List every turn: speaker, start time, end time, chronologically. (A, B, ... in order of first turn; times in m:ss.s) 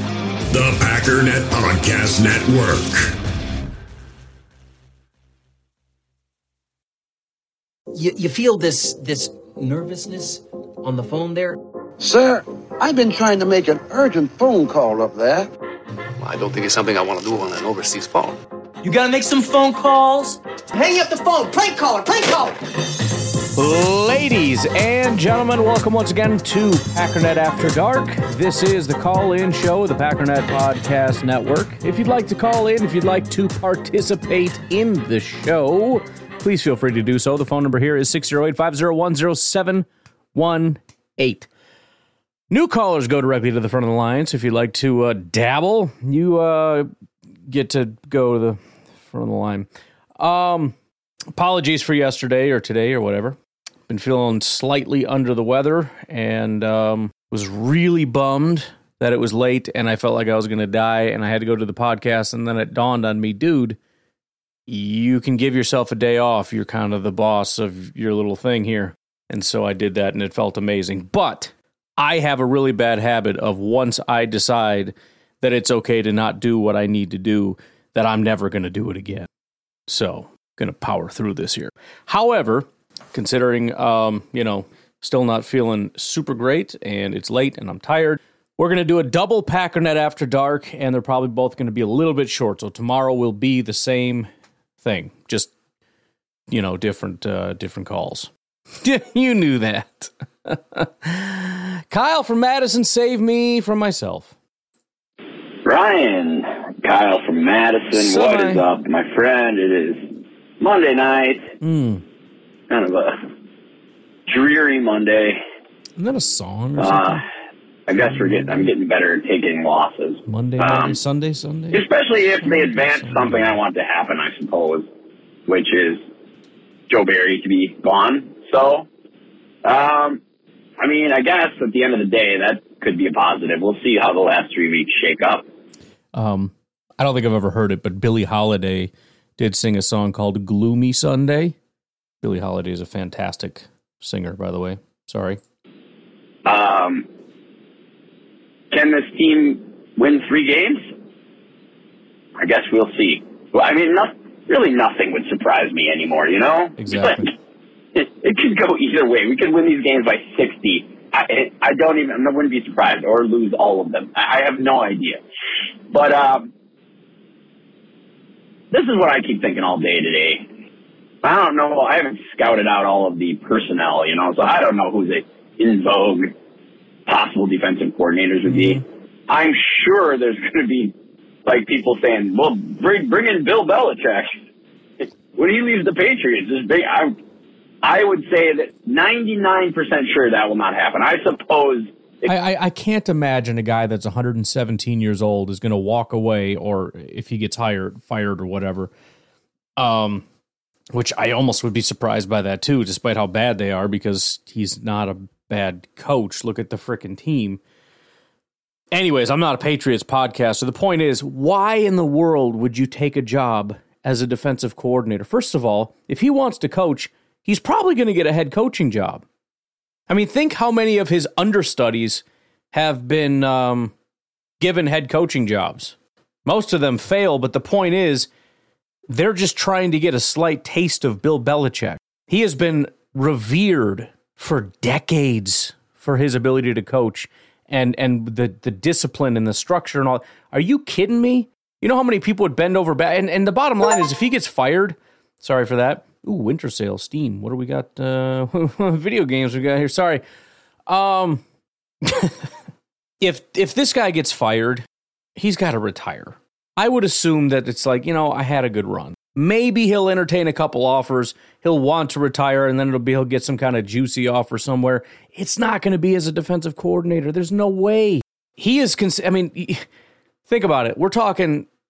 0:00.5-0:03.1 A
0:07.9-0:11.6 B
0:12.0-0:15.5 C
0:16.2-0:18.4 D
0:18.8-0:22.6 B
0:23.5-0:41.5 E
0:42.5-0:46.9 E
0:47.5-0:49.7 E
0:50.2-0:50.7 E
0:51.3-0:53.4 E
0:53.9-1:03.8 E
1:04.7-1:19.3 E
1:19.9-1:34.3 E
1:34.8-1:35.5 E
1:36.5-1:38.3 E
1:38.8-1:44.3 E
1:45.6-1:51.5 F
1:47.9-1:48.6 E
1:51.6-1:52.0 E
1:52.7-1:53.3 F
1:54.3-1:55.4 F
1:56.0-1:57.2 E
1:56.8-1:57.2 F
1:57.9-2:01.0 F
1:58.0-1:58.7 E
2:00.2-2:01.9 E
2:01.7-2:04.9 F
2:02.4-2:03.6 E
2:05.5-2:06.0 F
2:06.9-2:08.9 F
2:09.6-2:10.2 F
2:10.8-2:15.4 F
2:16.1-2:21.6 E
2:22.2-2:25.4 E
2:26.4-2:27.1 F
2:28.7-2:30.9 F
2:32.4-2:37.3 F
2:36.8-2:37.3 E
2:37.9-2:45.2 F
2:45.9-2:46.5 F
2:48.7-2:50.5 F
2:51.2-2:56.3 F
2:57.0-3:04.4 F
2:58.5-2:58.8 E
3:05.0-3:07.2 F
3:07.8-3:12.3 F
3:12.2-3:18.9 E
3:19.8-3:20.2 E
3:20.9-3:27.6 E
3:28.9-3:39.2 E
3:40.1-3:43.9 E
3:44.6-3:48.3 E
3:49.1-4:10.2 E
4:10.9-4:11.4 E
4:12.0-4:12.5 E
4:13.2-4:14.8 E
4:15.4-4:29.8 E
4:30.5-4:31.7 E